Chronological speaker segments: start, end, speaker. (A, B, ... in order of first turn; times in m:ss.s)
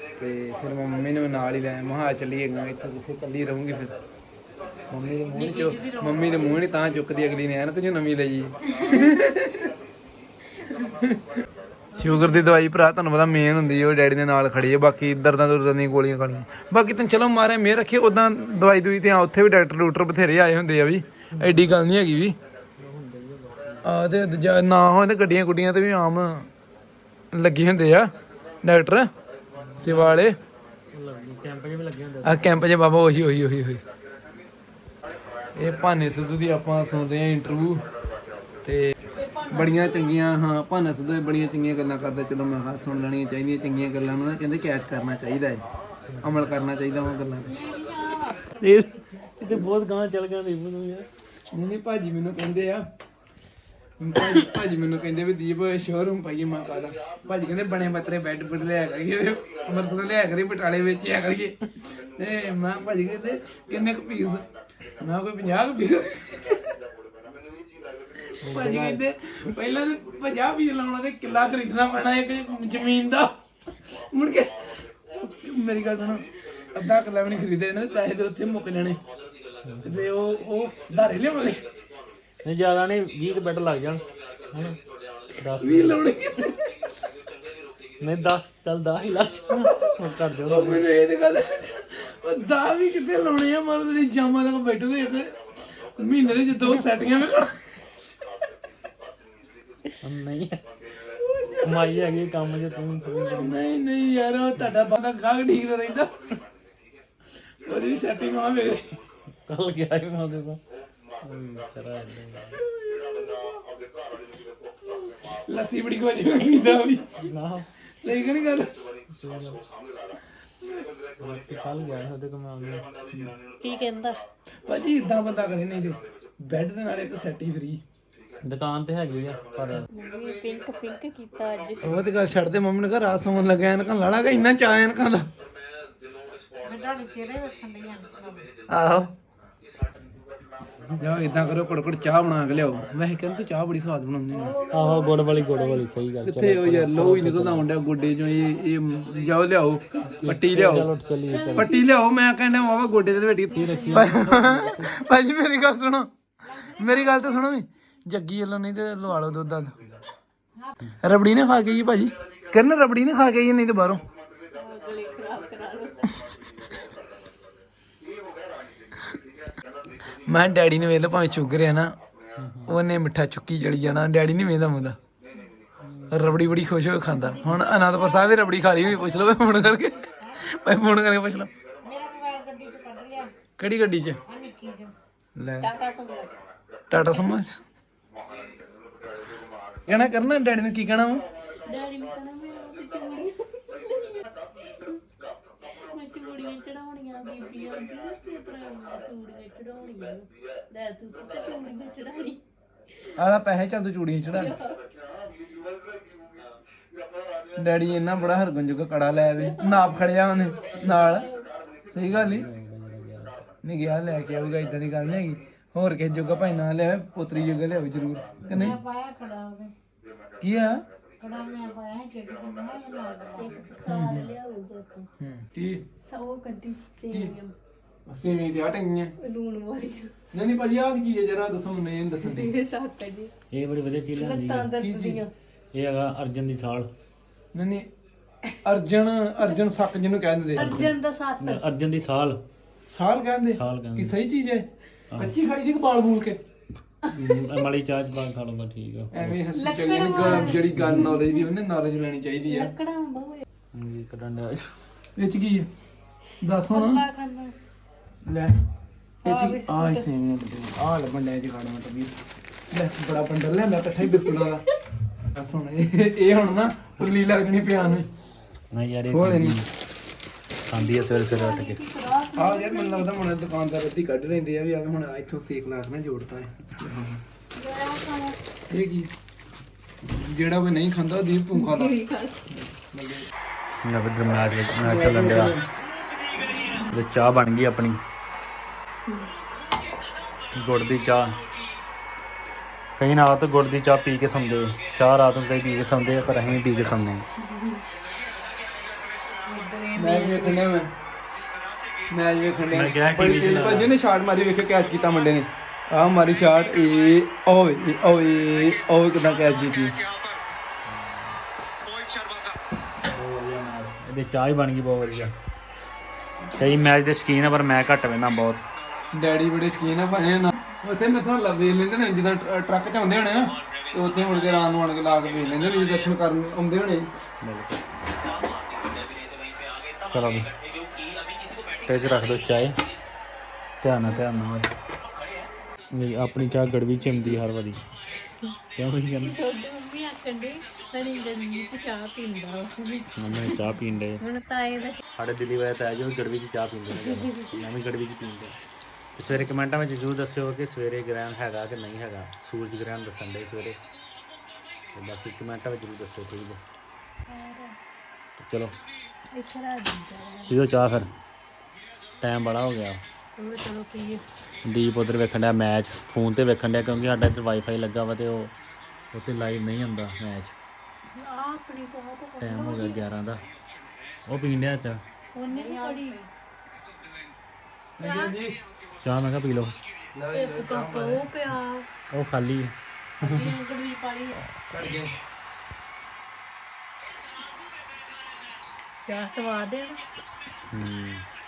0:00.2-0:03.9 A
0:04.9-0:09.7 A
0:05.3-0:06.8 B
0:10.8-0:11.2 A
0:11.9-0:22.4 A
0:21.3-0:21.8 C
0:22.8-0:23.9 C
0:23.8-0:26.5 A
0:27.3-0:28.1 A
0:28.6-0:29.1 A
0:29.6-0:30.2 C
0:29.8-0:30.4 A
0:30.9-0:32.7 C
0:32.2-0:33.8 A
0:35.5-0:37.8 A
0:38.6-0:45.6 A
0:39.1-0:40.2 D
0:46.1-0:46.5 C
0:46.2-0:47.5 A
0:47.4-0:48.6 D
0:48.6-0:51.1 C
0:51.5-0:52.9 A
0:54.0-1:04.4 A
1:05.0-1:06.6 A
1:08.4-1:09.0 C
1:08.4-1:13.3 A
1:13.9-1:19.0 A
1:19.6-1:20.0 C
1:19.8-1:21.7 A
1:22.4-1:24.8 C
1:25.4-1:26.0 C
1:25.6-1:26.7 A
1:28.0-1:30.8 C
1:30.5-1:37.8 A
1:40.0-1:40.6 C
1:41.2-1:41.8 A
1:41.6-1:43.6 C
1:43.2-1:46.1 A
1:47.6-1:49.0 A
1:49.4-1:50.6 C
1:51.2-1:52.6 C
1:55.4-1:57.2 A
1:57.2-1:57.7 C
1:57.9-1:58.8 A
1:59.1-1:59.6 C
2:01.2-2:02.8 C
2:03.6-2:04.2 D
2:04.6-2:07.8 A
2:08.4-2:09.8 C
2:09.9-2:11.9 D
2:11.8-2:15.3 A
2:16.6-2:18.5 B
2:18.7-2:19.1 A
2:21.0-2:24.6 A
2:24.3-2:25.9 D
2:24.7-2:27.7 C
2:26.2-2:30.9 A
2:30.0-2:31.7 C
2:31.3-2:31.9 D
2:31.5-2:39.7 A
2:33.5-2:34.5 D
2:33.5-2:35.0 C
2:36.4-2:37.4 B
2:41.0-2:44.0 A
2:44.5-2:46.1 D
2:50.3-2:51.9 A
2:52.4-2:52.8 C
2:52.6-2:55.0 A
2:55.8-2:56.2 C
2:56.1-3:01.5 A
2:57.1-3:00.8 B
3:01.8-3:03.3 B
3:03.6-3:04.2 A
3:04.2-3:04.9 B
3:05.4-3:05.7 A
3:05.6-3:06.4 D
3:06.9-3:07.6 A
3:09.8-3:11.2 A
3:11.6-3:15.0 D
3:15.7-3:22.4 D
3:23.2-3:24.6 A
3:24.3-3:24.8 D
3:27.6-3:31.3 A
3:29.4-3:30.0 D
3:30.7-3:31.5 D
3:31.9-3:32.5 A
3:32.0-3:33.4 C
3:33.6-3:38.8 A
3:38.4-3:38.8 C
3:38.5-3:39.7 B
3:40.4-3:40.8 A
3:41.2-3:43.7 B
3:43.4-3:45.1 D
3:43.8-3:44.3 A
3:45.2-3:45.8 A
3:46.0-3:47.5 D
3:48.1-3:49.1 A
3:49.2-3:50.1 D
3:50.3-3:52.5 A
3:52.2-3:53.3 D
3:53.5-3:54.7 C
3:54.2-3:55.3 D
3:54.8-3:55.2 A
3:55.7-3:56.9 C
3:57.5-3:57.9 A
3:58.6-4:00.9 A
4:00.6-4:01.6 D
4:00.6-4:00.9 C
4:01.4-4:02.4 C
4:02.9-4:06.4 A
4:03.5-4:04.1 C
4:07.0-4:07.4 D
4:07.1-4:09.4 C
4:09.1-4:12.7 A
4:09.5-4:11.5 D
4:10.2-4:11.1 C
4:12.4-4:13.4 D
4:13.7-4:14.7 C
4:15.2-4:15.7 A
4:16.4-4:17.0 A
4:16.7-4:17.5 D
4:18.2-4:18.5 A
4:19.2-4:22.2 A
4:19.2-4:20.0 D
4:22.7-4:24.6 A
4:24.2-4:24.4 D
4:25.2-4:28.1 A
4:28.7-4:29.6 C
4:29.1-4:29.6 A
4:30.6-4:31.8 C
4:30.7-4:33.1 D
4:32.3-4:37.2 A
4:37.5-4:38.4 D
4:38.7-4:39.1 A
4:40.0-4:42.0 A
4:41.5-4:42.5 D
4:42.5-4:43.3 A
4:43.8-4:45.6 C
4:44.8-4:45.6 A
4:46.8-4:48.0 C
4:49.1-4:49.3 D
4:50.5-4:51.4 C
4:53.0-4:57.2 C
4:57.4-4:57.8 D
4:59.4-5:00.6 D
4:59.9-5:00.9 A
5:02.1-5:10.0 A
5:02.7-5:03.9 C
5:10.9-5:11.4 C
5:13.0-5:15.3 C
5:16.5-5:18.6 C
5:19.1-5:27.1 A
5:27.4-5:27.8 C
5:30.1-5:30.5 C
5:31.8-5:32.8 C
5:33.8-5:34.7 C
5:35.9-5:37.8 C
5:38.8-5:39.4 C
5:39.2-5:45.0 D
5:43.2-5:44.2 C
5:45.2-5:48.5 C
5:47.0-5:47.5 D
5:49.2-5:53.8 C
5:54.9-5:56.6 C
5:57.3-5:57.8 D
5:58.4-5:58.7 C
5:59.3-6:00.5 D
6:00.5-6:01.1 C
6:02.2-6:03.0 C
6:03.4-6:04.2 D
6:04.6-6:08.5 C
6:09.1-6:10.5 C
6:11.1-6:13.0 D
6:12.4-6:13.4 C
6:14.2-6:15.0 C
6:15.3-6:16.3 D
6:18.0-6:18.4 D
6:18.0-6:18.6 A
6:19.0-6:19.7 C
6:20.1-6:21.3 A
6:20.3-6:21.9 D
6:22.1-6:23.5 C
6:23.2-6:24.4 D
6:24.7-6:25.1 A
6:29.0-6:30.0 D
6:30.7-6:31.2 C